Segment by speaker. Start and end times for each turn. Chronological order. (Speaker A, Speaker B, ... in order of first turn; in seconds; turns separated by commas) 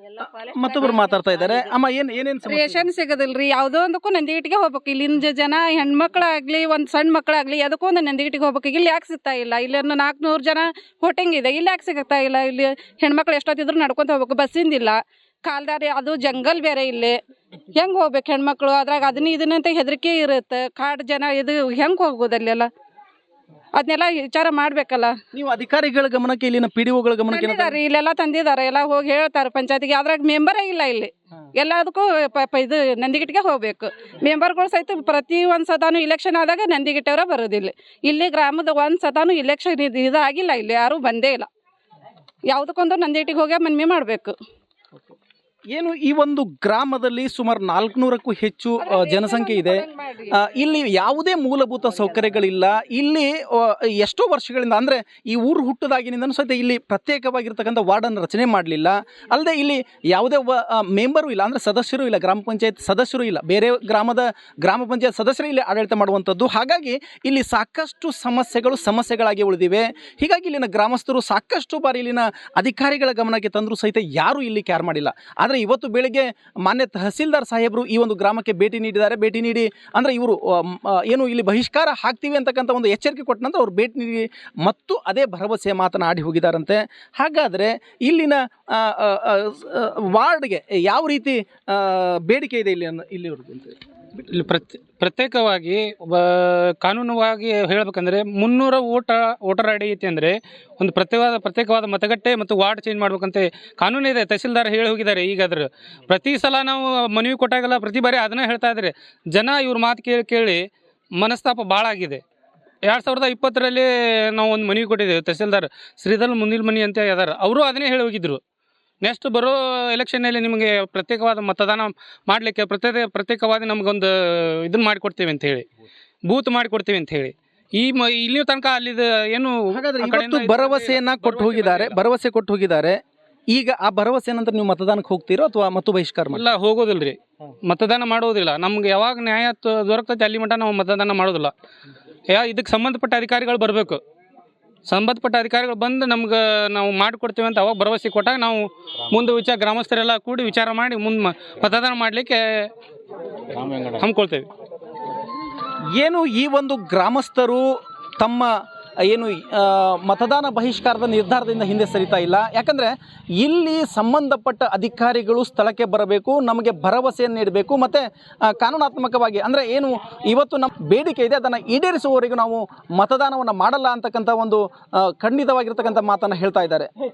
Speaker A: 0.2-2.8, Speaker B: 2.5-17.2, Speaker B: 17.7-22.7, Speaker B: 23.8-25.1, Speaker A: 25.3-27.8, Speaker B: 27.3-41.5, Speaker B: 42.5-44.4, Speaker A: 45.7-49.8, Speaker B: 48.8-50.4, Speaker A: 50.3-93.7, Speaker C: 94.3-112.2, Speaker C: 112.8-118.4, Speaker C: 119.0-125.7, Speaker C: 126.2-132.0, Speaker A: 129.7-133.0, Speaker A: 133.5-136.4, Speaker C: 136.3-141.5, Speaker C: 142.3-144.0, Speaker C: 144.9-152.7, Speaker C: 153.6-154.5, Speaker A: 156.0-157.6, Speaker A: 158.2-158.5, Speaker A: 159.1-176.9